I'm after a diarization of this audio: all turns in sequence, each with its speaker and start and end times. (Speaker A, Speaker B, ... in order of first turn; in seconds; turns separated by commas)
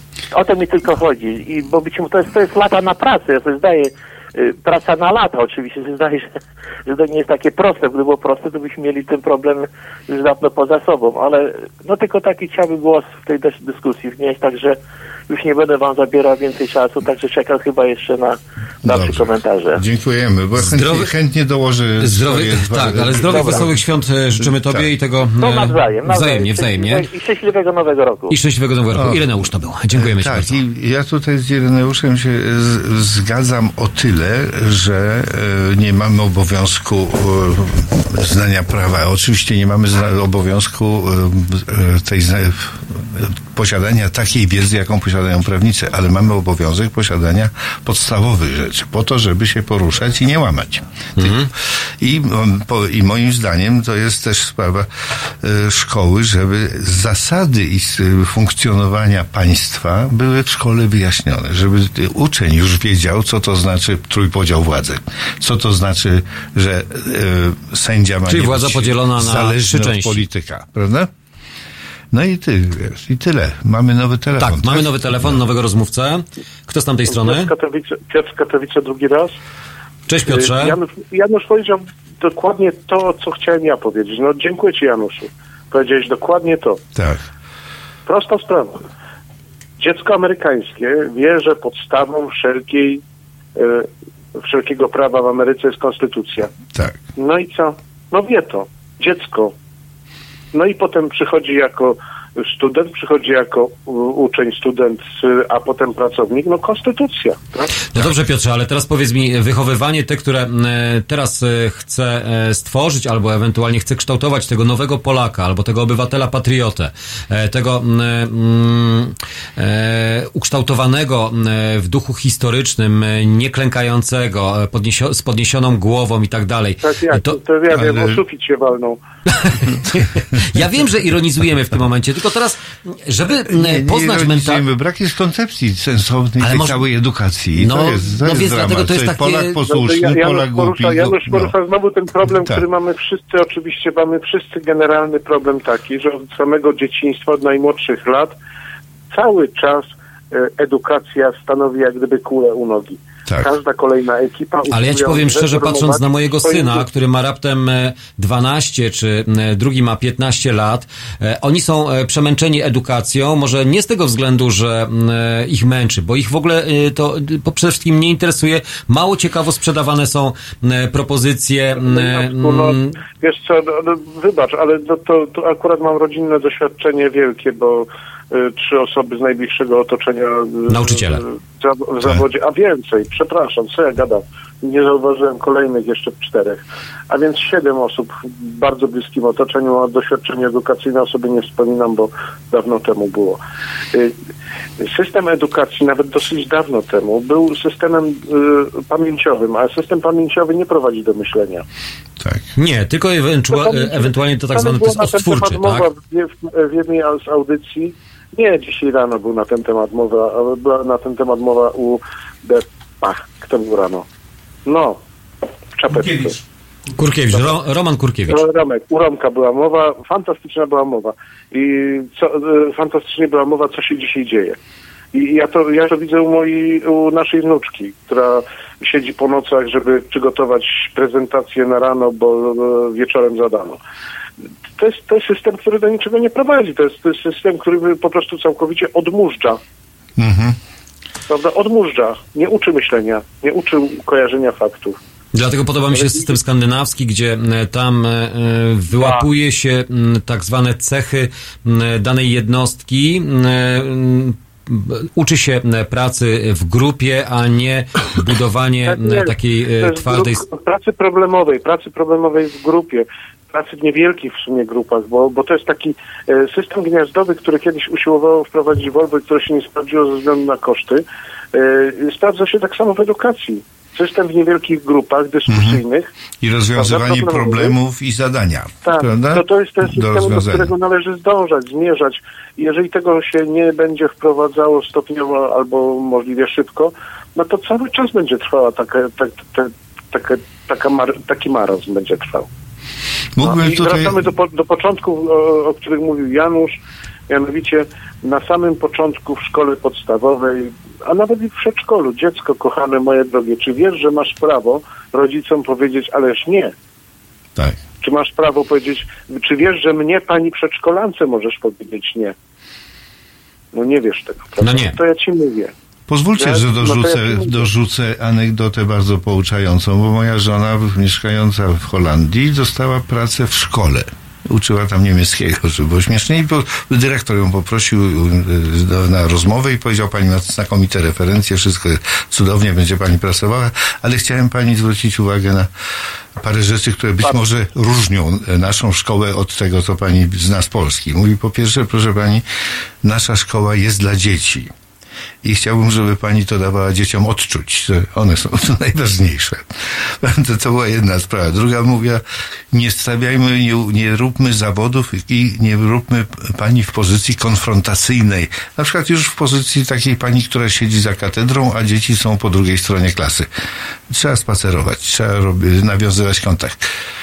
Speaker A: 0.3-19.8, Speaker B: 18.8-23.8, Speaker C: 20.6-21.1, Speaker C: 22.0-27.1, Speaker A: 23.3-23.6, Speaker B: 24.4-24.9, Speaker A: 25.4-28.4, Speaker C: 28.3-30.6, Speaker B: 28.9-51.4, Speaker C: 51.2-51.5, Speaker B: 52.0-71.1, Speaker C: 68.3-70.2, Speaker B: 72.1-75.4, Speaker C: 74.4-77.5, Speaker D: 77.1-79.4, Speaker C: 80.1-80.8, Speaker D: 80.2-86.8, Speaker B: 86.9-87.2, Speaker D: 88.0-88.8, Speaker D: 89.8-93.0, Speaker D: 93.5-96.5, Speaker B: 96.7-97.0, Speaker D: 97.2-99.5, Speaker D: 100.5-107.8, Speaker C: 107.9-127.4, Speaker D: 126.8-129.0, Speaker B: 127.7-128.2, Speaker C: 129.3-134.7, Speaker B: 129.6-130.6, Speaker B: 133.5-141.5, Speaker C: 136.4-136.8, Speaker C: 137.6-139.6, Speaker D: 139.6-148.3, Speaker B: 142.2-142.6, Speaker D: 149.1-156.8, Speaker B: 153.3-153.5, Speaker C: 154.7-173.0, Speaker D: 171.7-193.4, Speaker C: 180.7-181.2, Speaker D: 194.8-201.6, Speaker B: 202.2-202.5, Speaker C: 202.6-205.9, Speaker D: 203.5-214.1, Speaker D: 214.7-215.0, Speaker D: 215.7-216.4, Speaker B: 215.9-216.3, Speaker C: 216.9-218.4, Speaker D: 218.3-224.6, Speaker D: 225.1-233.8, Speaker D: 234.8-239.6, Speaker B: 240.2-240.6, Speaker D: 241.3-245.0, Speaker C: 245.3-260.4, Speaker D: 245.9-246.3, Speaker D: 258.9-276.1, Speaker B: 275.5-275.8, Speaker B: 276.4-280.7, Speaker D: 276.7-277.8, Speaker D: 278.8-292.5, Speaker B: 293.4-294.3, Speaker D: 293.4-296.7, Speaker D: 297.3-306.7, Speaker D: 308.0-312.3, Speaker D: 313.7-315.7, Speaker C: 314.6-315.0, Speaker B: 316.1-335.7, Speaker D: 316.4-317.7, Speaker B: 336.4-342.4, Speaker B: 343.0-344.7, Speaker B: 345.4-363.5, Speaker B: 364.1-366.8